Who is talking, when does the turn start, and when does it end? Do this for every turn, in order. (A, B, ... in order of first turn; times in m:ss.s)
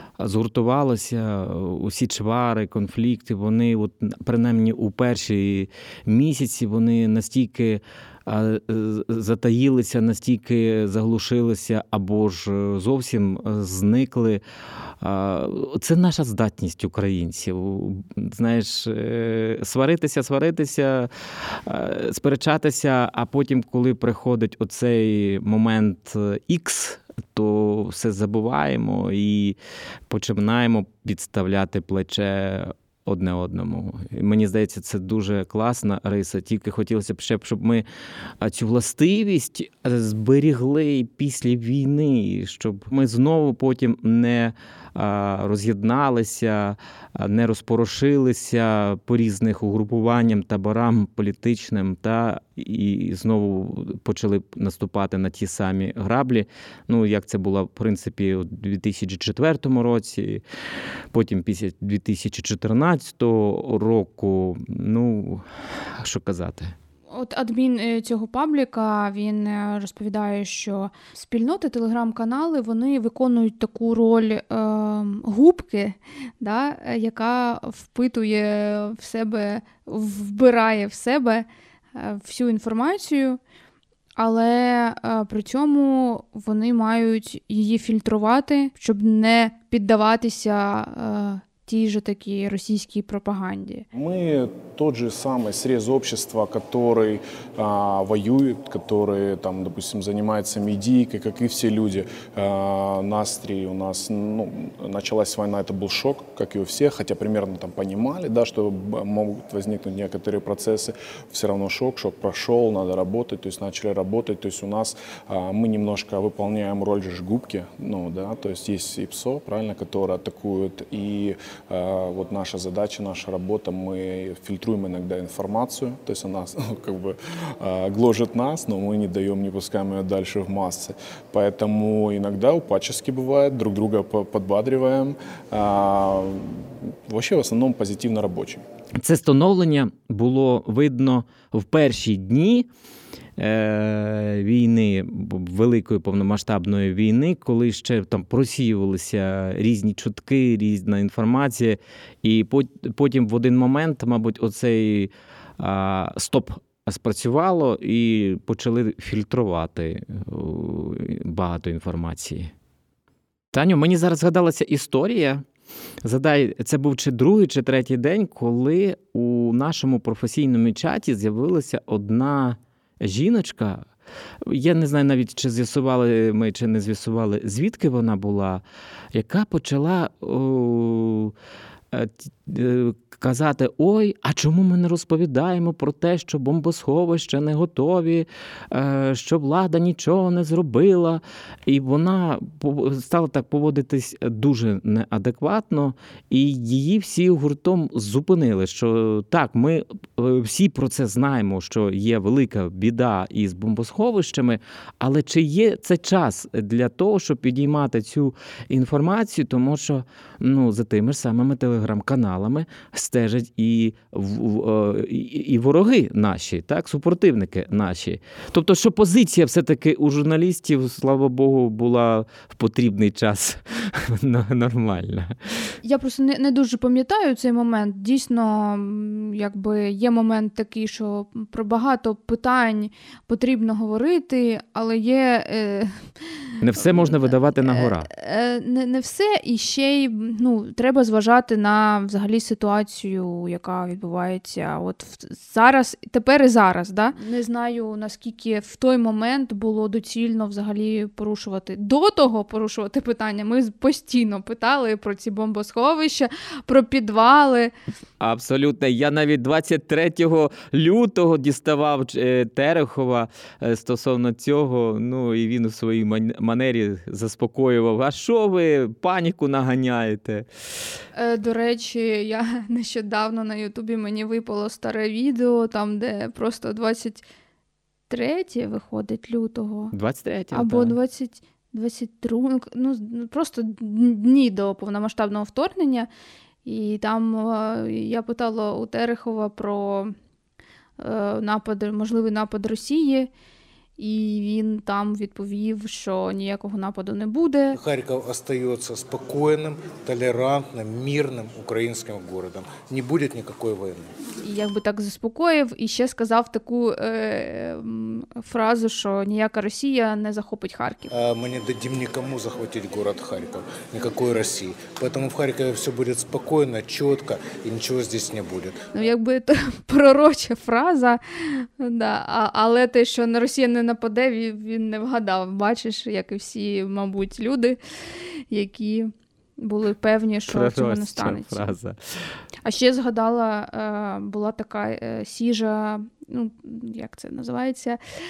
0:00.2-0:14.4 A
0:15.0-0:21.1 A
0:21.6-0:29.6 A
0:30.1-0:37.8 A
0:38.4-1:00.4 A
1:01.1-1:05.4 A
1:06.0-1:06.7 A
1:07.1-1:23.4 B
1:24.2-1:33.8 B
1:33.9-2:18.6 C
2:19.0-2:22.7 A
2:23.4-2:42.5 A
2:43.5-2:45.4 A
2:46.0-2:53.8 A
2:54.4-2:58.6 A
2:59.1-3:01.3 A
3:01.9-3:45.3 A
3:45.8-3:56.1 B
3:56.6-3:58.1 A
3:56.8-4:17.7 B
4:18.2-4:30.5 A
4:31.1-4:37.2 B
4:38.1-4:39.9 B
4:39.9-4:41.0 A
4:40.5-4:46.1 B
4:46.6-4:50.1 B
4:51.0-4:53.3 B
4:54.0-4:57.8 B
4:57.7-5:04.1 D
5:04.4-5:11.1 B
5:11.1-5:18.8 D
5:18.9-5:31.7 B
5:30.5-5:32.0 A
5:32.6-5:38.0 B